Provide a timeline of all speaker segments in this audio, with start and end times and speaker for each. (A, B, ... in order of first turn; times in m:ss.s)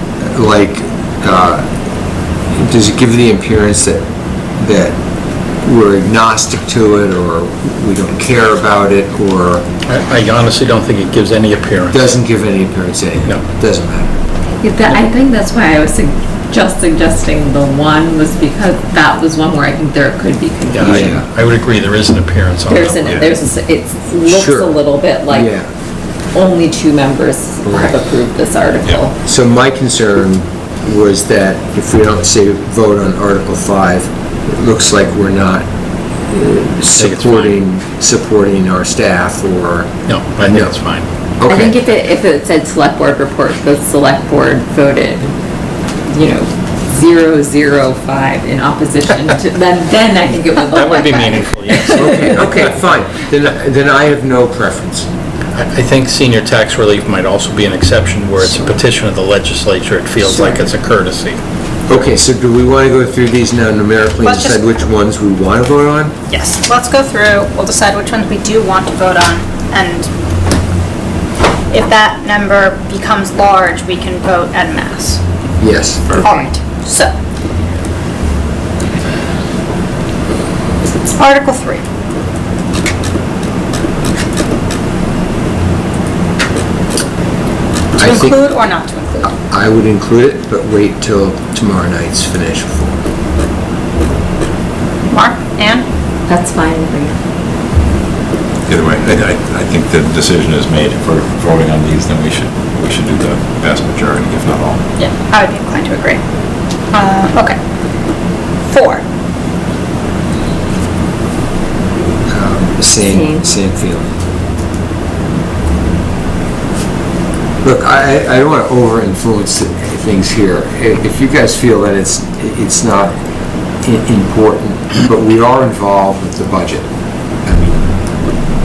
0:00.2-0:01.7 A
0:02.5-0:05.0 A
0:05.6-0:09.7 A
0:09.8-0:12.1 B
0:11.9-0:14.1 A
0:14.6-0:21.2 C
0:20.7-0:23.2 B
0:20.8-0:21.3 A
0:22.7-0:25.6 C
0:24.3-0:25.7 A
0:26.3-0:29.2 C
0:27.6-0:28.0 A
0:29.2-0:35.7 A
0:36.3-0:39.9 A
0:37.0-0:37.6 B
0:40.1-0:41.1 B
0:40.4-0:40.7 A
0:41.4-0:41.8 A
0:41.4-0:45.3 C
0:46.1-0:52.3 C
0:50.6-0:52.6 B
0:51.9-0:55.1 A
0:55.6-1:01.4 B
1:00.2-1:00.6 C
1:01.9-1:06.2 A
1:04.2-1:04.7 D
1:06.3-1:10.1 D
1:11.7-1:15.2 D
1:15.6-1:16.2 A
1:16.2-1:17.1 D
1:16.2-1:16.5 C
1:21.1-1:21.8 D
1:28.0-1:28.4 A
1:28.0-1:29.3 D
1:29.3-1:33.0 A
1:35.1-1:35.8 D
1:36.3-1:37.2 C
1:38.7-1:44.8 E
1:45.0-1:46.2 D
1:46.9-1:47.6 D
1:48.7-1:49.0 D
1:52.3-1:54.1 A
1:53.1-1:53.5 C
1:57.6-2:03.2 A
2:03.8-2:06.9 A
2:07.4-2:07.9 A